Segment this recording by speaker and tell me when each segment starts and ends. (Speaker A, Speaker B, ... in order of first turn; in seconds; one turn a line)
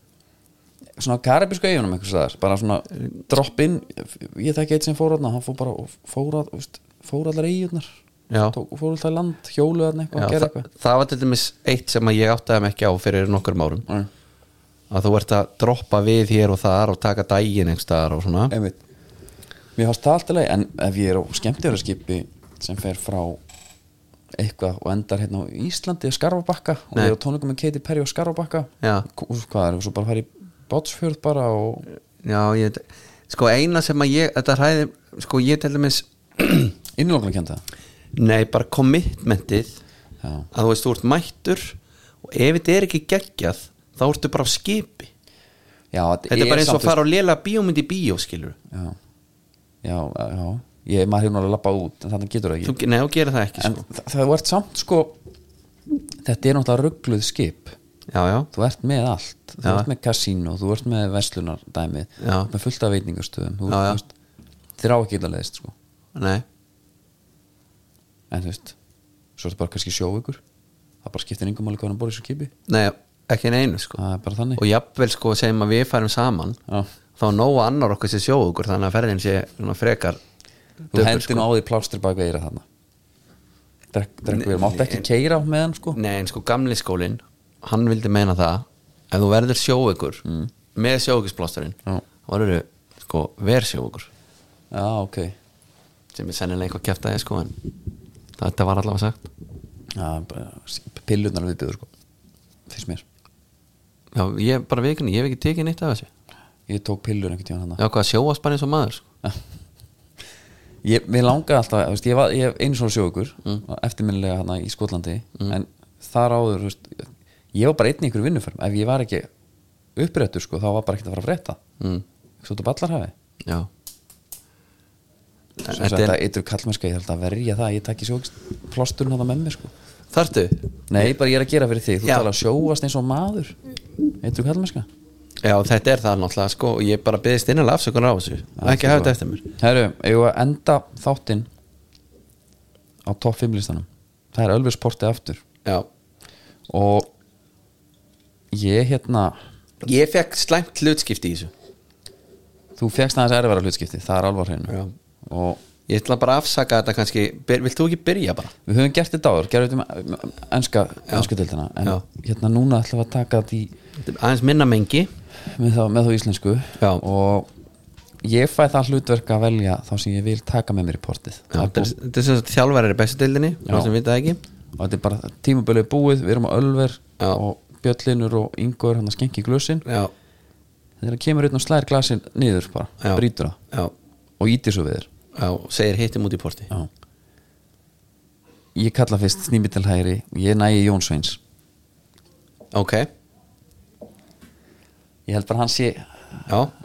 Speaker A: 1.0-10.7
Speaker B: 8.3-8.6
Speaker B: 10.1-13.8
Speaker B: 14.9-18.5
Speaker A: 18.5-18.8
Speaker A: 19.8-23.4
Speaker A: 24.3-31.9
Speaker B: 32.2-36.7
Speaker A: 37.0-37.6
Speaker B: 38.1-39.8
Speaker A: 40.2-40.5
Speaker B: 40.5-45.1
Speaker A: 45.9-47.0
Speaker B: 46.3-48.6
Speaker A: 48.7-49.0
Speaker A: 49.8-52.8
Speaker B: 52.6-53.8
Speaker A: 53.6-55.2
Speaker A: 56.2-57.8
Speaker B: 58.1-58.5
Speaker A: 58.5-64.1
Speaker B: 62.2-62.5
Speaker B: 63.7-64.0
Speaker A: 64.8-65.7
Speaker B: 66.1-66.4
Speaker A: 68.3-68.7
Speaker A: 69.4-70.4
Speaker A: 71.0-72.5
Speaker B: 72.7-74.0
Speaker A: 74.0-74.6
Speaker B: 74.6-76.6
Speaker B: 77.2-80.2
Speaker B: 80.9-81.5
Speaker A: 80.9-82.6
Speaker A: 83.9-86.0
Speaker B: 84.3-85.0
Speaker B: 85.9-90.2
Speaker A: 90.2-90.5
Speaker B: 90.7-94.1
Speaker A: 94.7-95.3
Speaker B: 96.1-97.5
Speaker B: 98.4-99.2
Speaker A: 99.9-101.9
Speaker A: 102.7-103.0
Speaker B: 104.1-106.1
Speaker A: 106.7-107.8
Speaker B: 107.8-109.0
Speaker A: 110.8-119.3
Speaker A: 120.0-121.6
Speaker A: 122.4-123.1
Speaker B: 123.4-123.7
Speaker B: 125.6-126.2
Speaker A: 125.6-129.7
Speaker B: 130.1-131.1
Speaker A: 130.9-133.6
Speaker A: 134.2-134.9
Speaker B: 135.4-139.4
Speaker A: 138.6-141.5
Speaker A: 143.0-145.4
Speaker A: 146.7-147.1
Speaker A: 148.5-149.4
Speaker B: 149.8-151.5
Speaker A: 152.8-155.6
Speaker B: 155.9-158.5
Speaker A: 158.6-163.7
Speaker B: 164.0-165.1
Speaker A: 165.4-167.5
Speaker A: 168.2-171.9
Speaker B: 171.5-174.4
Speaker A: 173.7-173.9
Speaker A: 174.8-179.8
Speaker B: 179.8-180.1
Speaker A: 181.0-183.6
Speaker B: 183.0-183.9
Speaker A: 184.4-185.1
Speaker B: 185.3-186.7
Speaker A: 188.7-191.4
Speaker B: 192.7-193.1
Speaker A: 195.3-196.6